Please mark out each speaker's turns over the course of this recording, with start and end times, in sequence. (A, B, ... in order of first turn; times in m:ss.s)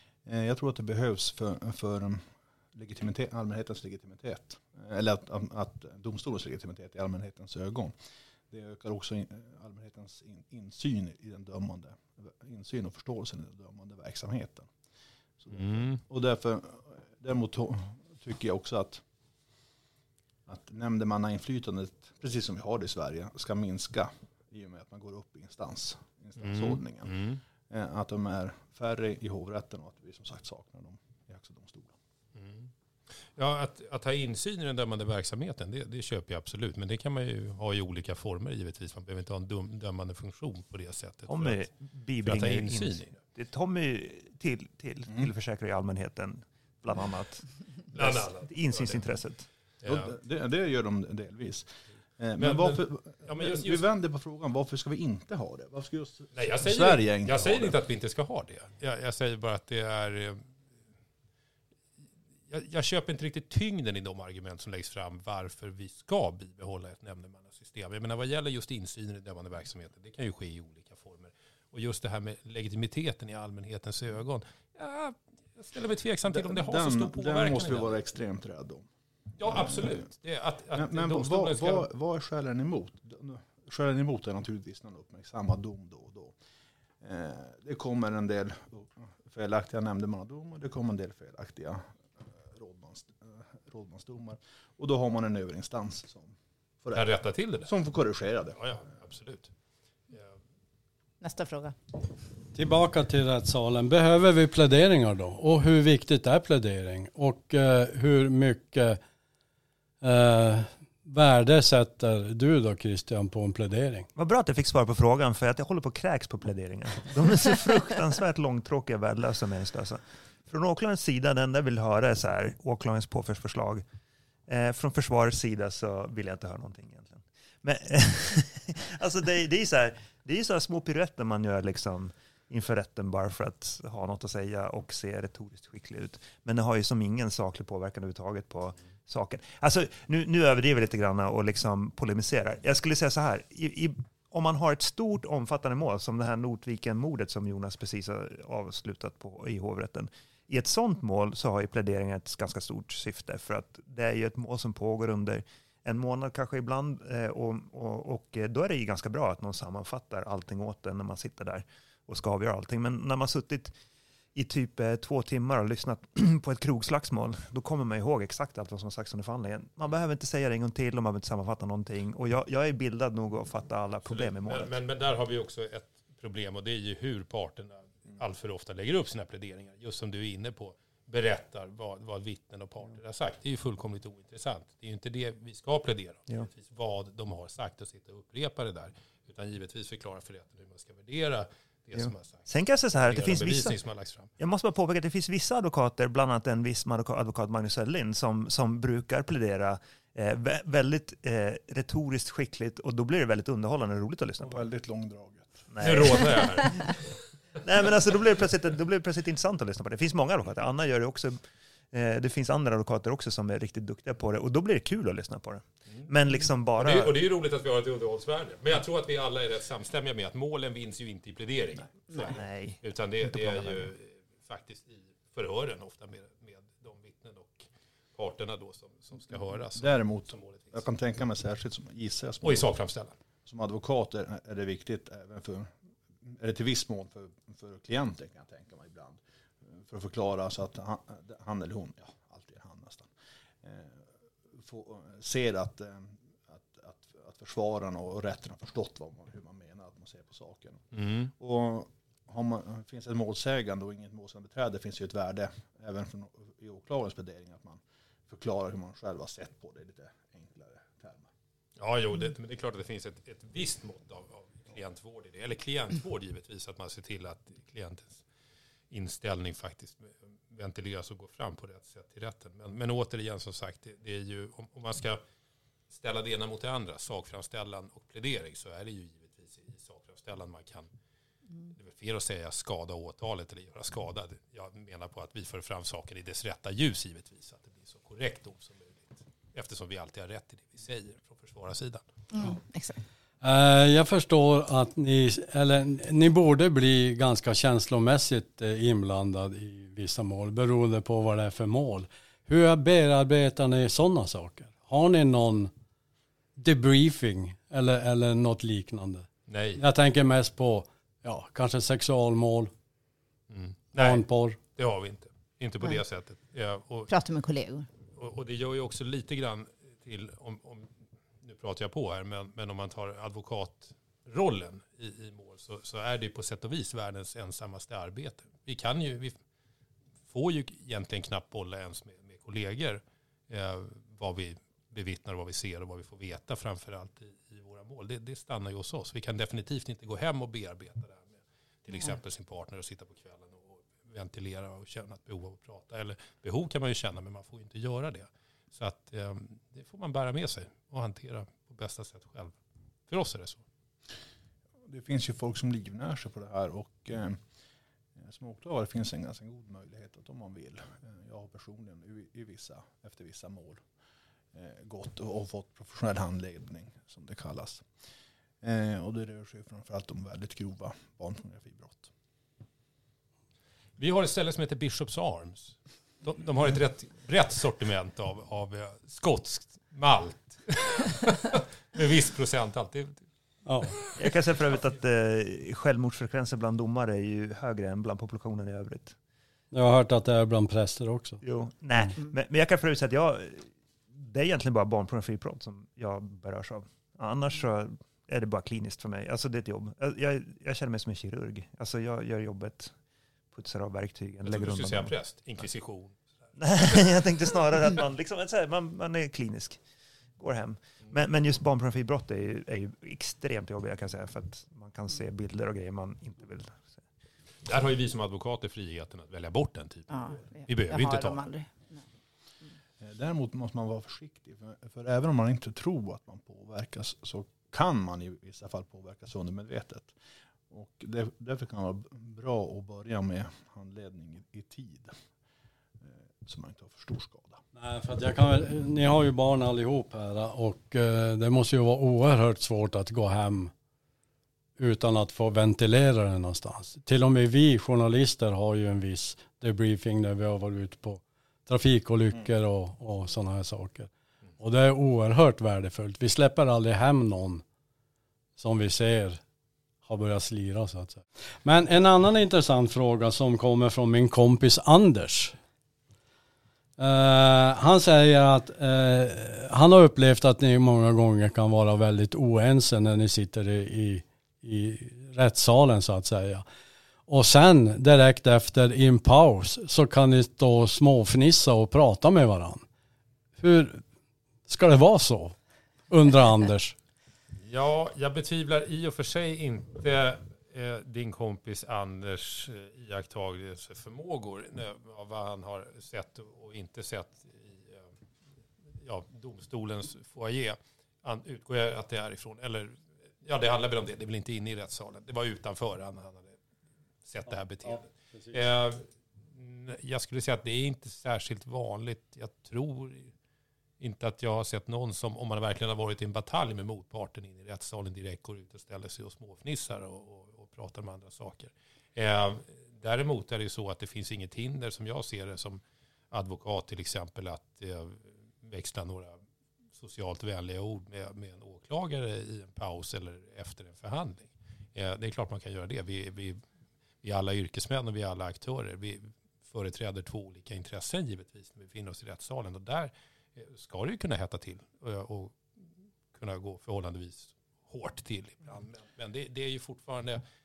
0:00.3-0:08.0 A
0:08.5-0:14.7 A
0:15.4-0:19.0 A
0:15.5-0:16.0 B
0:20.5-0:27.2 A
0:26.4-0:27.4 B
0:27.7-0:32.0 A
0:32.4-0:32.7 B
0:33.2-0:41.7 B
0:41.3-0:49.5 C
0:42.2-0:43.2 B
0:47.9-0:49.1 B
0:49.8-0:50.2 B
0:49.8-0:57.8 A
0:52.4-0:53.8 B
0:56.3-1:00.4 B
1:02.5-1:17.9 B
1:16.3-1:18.9 A
1:19.4-1:21.9 B
1:19.4-1:20.0 A
1:20.7-1:26.4 A
1:27.0-1:37.1 A
1:36.9-1:37.7 B
1:37.6-1:38.8 A
1:38.6-1:39.5 B
1:41.2-1:41.8 D
1:42.5-1:49.0 E
1:50.0-1:54.1 E
1:54.2-2:03.8 C
2:04.5-2:43.8 C
2:44.4-2:54.8 C
2:54.1-3:14.3 B
3:12.0-3:13.8 C
3:14.4-3:24.7 C
3:24.4-3:26.1 A
3:25.7-3:26.7 C
3:25.8-3:27.1 B
3:27.6-3:31.4 C
3:31.9-3:37.2 C
3:36.8-3:50.8 B
3:42.2-3:43.9 C
3:49.8-3:52.7 A
3:52.4-3:53.2 B
3:53.4-4:03.1 A
4:03.6-4:21.3 A
4:10.9-4:11.3 B
4:21.8-4:28.2 B
4:28.9-4:35.2 B
4:35.9-4:40.9 B
4:41.7-4:52.0 B
4:52.3-4:53.0 D
4:53.4-5:05.7 E
5:06.6-5:09.3 E
5:09.5-5:09.8 B
5:09.8-5:12.7 E
5:13.5-5:17.1 B
5:14.0-5:14.6 E
5:17.1-5:17.9 D
5:18.2-5:20.9 B
5:21.4-5:29.4 B
5:30.3-5:52.6 B
5:53.1-5:53.6 B
5:54.8-5:57.4 A
5:58.2-6:03.8 A
6:04.5-6:07.9 A
6:08.6-6:12.1 A
6:14.0-6:23.2 B
6:23.7-6:24.0 E
6:24.0-6:24.3 B
6:24.2-6:29.2 C
6:29.7-6:31.4 E
6:31.4-6:43.0 C
6:43.5-6:45.1 C
6:44.4-6:46.2 B
6:46.6-6:49.8 C
6:50.4-6:57.0 C
6:57.6-7:01.5 B
7:00.1-7:02.0 D
7:03.0-7:10.2 A
7:10.7-7:15.2 A
7:16.0-7:17.6 A
7:17.8-7:23.7 E
7:24.8-7:37.6 E
7:38.6-7:39.4 E
7:40.0-7:45.6 E
7:47.0-7:56.6 E
7:57.3-8:02.8 E
8:03.6-8:04.0 E
8:04.7-8:05.6 E
8:06.1-8:07.0 E
8:07.6-8:18.1 B
8:19.0-8:26.6 B
8:27.2-8:33.3 B
8:27.5-8:28.6 E
8:34.0-8:49.4 B
8:50.0-8:56.6 B
8:57.2-9:05.6 B
9:06.3-9:10.4 B